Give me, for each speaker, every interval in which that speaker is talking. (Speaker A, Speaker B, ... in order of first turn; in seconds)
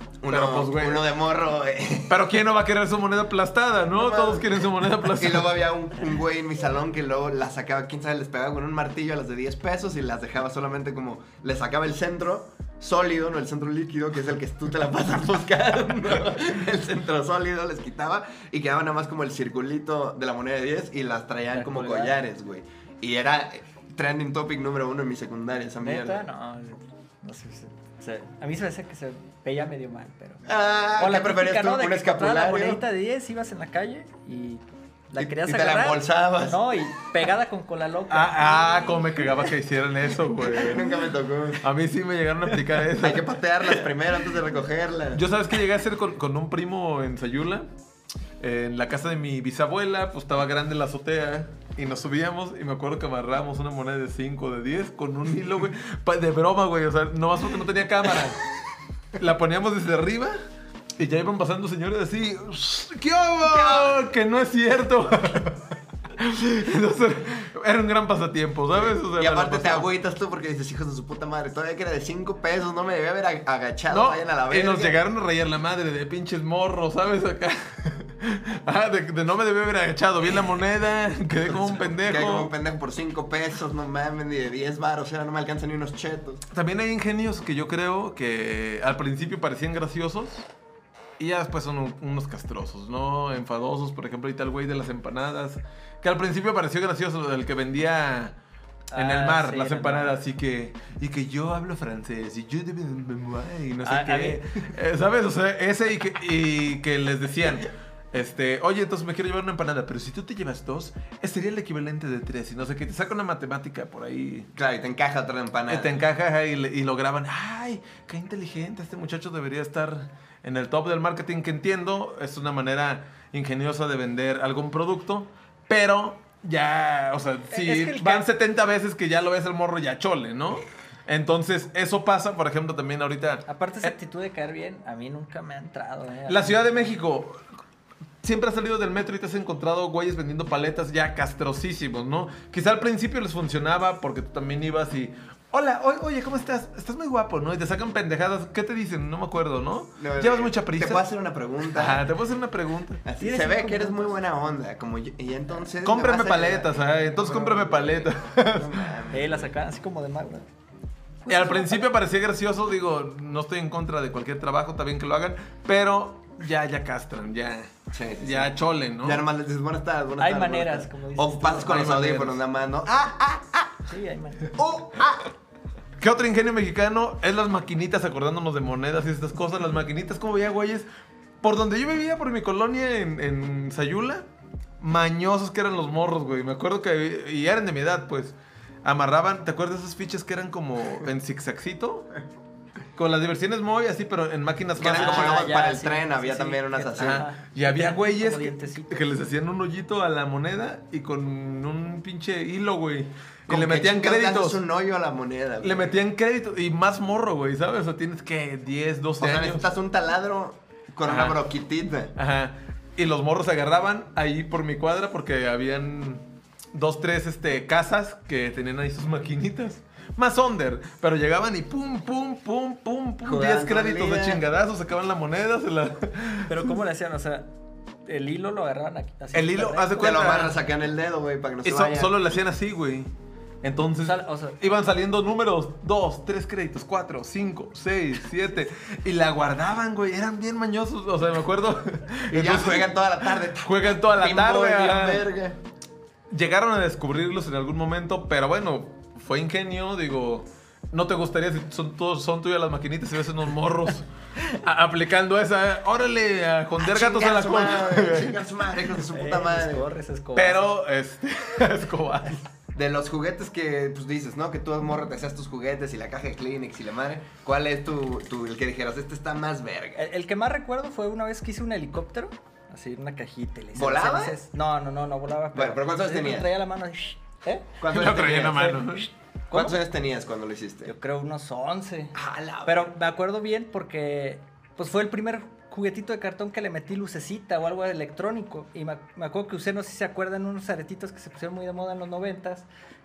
Speaker A: 0.2-2.3, 3.9-26.2, 30.5-32.8, 35.2-36.6, 40.5-41.6, 43.0-45.2, 63.4-64.0, 68.7-75.0, 81.5-86.4, 114.5-116.0, 150.0-152.1, 153.1-159.5, 167.9-173.8, 174.6-175.3, 194.8-197.2, 203.5-206.0, 209.2-212.1, 223.2-224.4, 229.9-232.1, 242.3-245.6, 256.8-259.9, 262.7-270.0, 273.8-274.4, 275.5-276.5, 277.8-278.8, 279.5-280.9, 282.1-282.9
Speaker B: 0.3-1.1, 2.1-5.6, 38.1-41.0, 41.6-43.3, 45.1-47.7, 48.4-58.4, 59.1-60.4, 61.0-65.6, 66.2-69.9, 73.9-82.5, 86.5-90.5, 91.2-98.3, 98.9-114.5, 115.7-133.9, 136.3-137.4, 138.2-151.1, 151.7-153.0, 155.8-158.9, 161.3-169.2, 171.6-172.4, 176.0-180.9, 181.4-184.3, 184.8-192.1, 193.0-195.5, 197.0-204.6, 205.6-209.6, 211.1-211.4, 212.2-226.8, 229.3-230.6, 231.6-233.1, 233.6-242.9, 243.5-245.3, 246.3-258.4, 260.4-262.4, 277.9-279.1
Speaker C: 21.5-22.1, 25.8-30.4, 31.0-39.5, 98.9-100.2, 103.8-104.4, 127.5-128.3, 133.5-136.6, 153.2-154.2, 159.1-160.5, 161.3-161.9, 170.2-171.8, 173.9-174.5, 194.8-199.1, 226.5-227.5, 228.1-230.2, 234.0-234.6, 259.0-260.7, 270.0-277.8, 278.5-279.8, 280.9-292.7